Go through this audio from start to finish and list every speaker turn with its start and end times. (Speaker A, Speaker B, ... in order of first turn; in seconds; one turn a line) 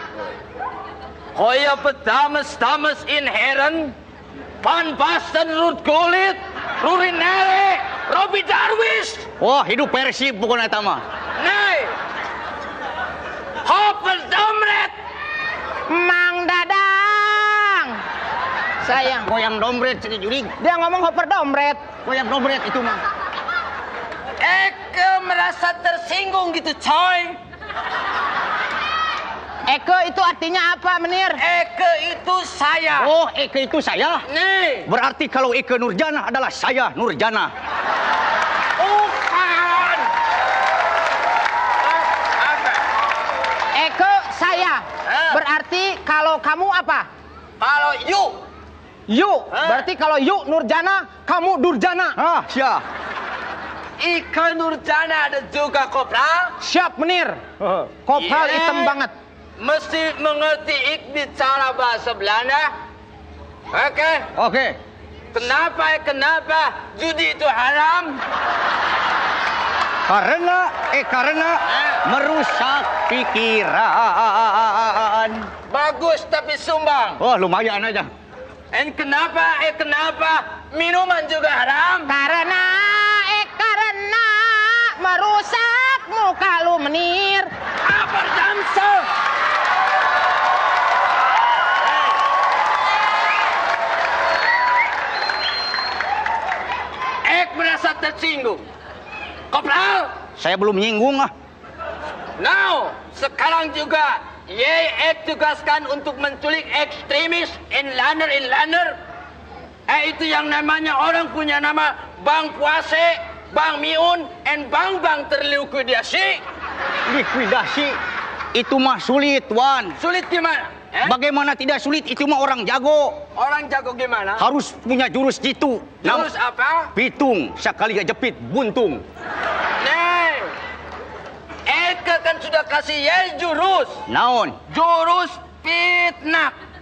Speaker A: 1.4-3.9
Speaker A: 4.6-9.3
Speaker B: 9.4-11.0
Speaker A: 11.4-11.9
Speaker A: 13.6-14.9
Speaker C: 15.9-18.0
Speaker C: 18.8-19.3
Speaker B: 18.9-20.5
Speaker C: 20.6-21.8
Speaker B: 22.0-23.0
Speaker A: 24.4-27.4
Speaker C: 29.7-31.4
Speaker A: 31.4-33.1
Speaker B: 33.0-34.2
Speaker A: 34.3-34.9
Speaker B: 34.9-37.5
Speaker A: 38.8-40.1
Speaker A: 42.1-42.8
Speaker C: 43.7-47.1
Speaker A: 45.0-45.4
Speaker A: 47.6-48.4
Speaker C: 49.1-52.2
Speaker A: 49.5-49.8
Speaker B: 52.1-52.8
Speaker A: 54.0-56.5
Speaker C: 56.6-57.4
Speaker C: 58.0-59.1
Speaker A: 58.1-59.0
Speaker A: 59.6-62.7
Speaker A: 63.7-64.2
Speaker B: 64.3-64.8
Speaker A: 65.3-68.2
Speaker B: 70.1-75.5
Speaker A: 71.7-72.0
Speaker A: 75.7-77.2
Speaker B: 77.2-78.1
Speaker A: 78.7-82.1
Speaker C: 82.1-87.5
Speaker A: 87.8-89.1
Speaker A: 97.2-98.7
Speaker A: 99.5-100.1
Speaker B: 100.4-101.3
Speaker A: 102.4-109.0
Speaker A: 109.9-116.4
Speaker B: 117.1-118.0
Speaker B: 118.5-120.0
Speaker A: 120.0-121.2
Speaker B: 121.0-123.2
Speaker A: 123.3-124.5
Speaker B: 124.4-126.3
Speaker A: 126.0-126.9
Speaker B: 126.9-129.0
Speaker A: 129.8-130.5
Speaker A: 131.7-134.0
Speaker B: 134.1-134.6
Speaker A: 134.7-136.6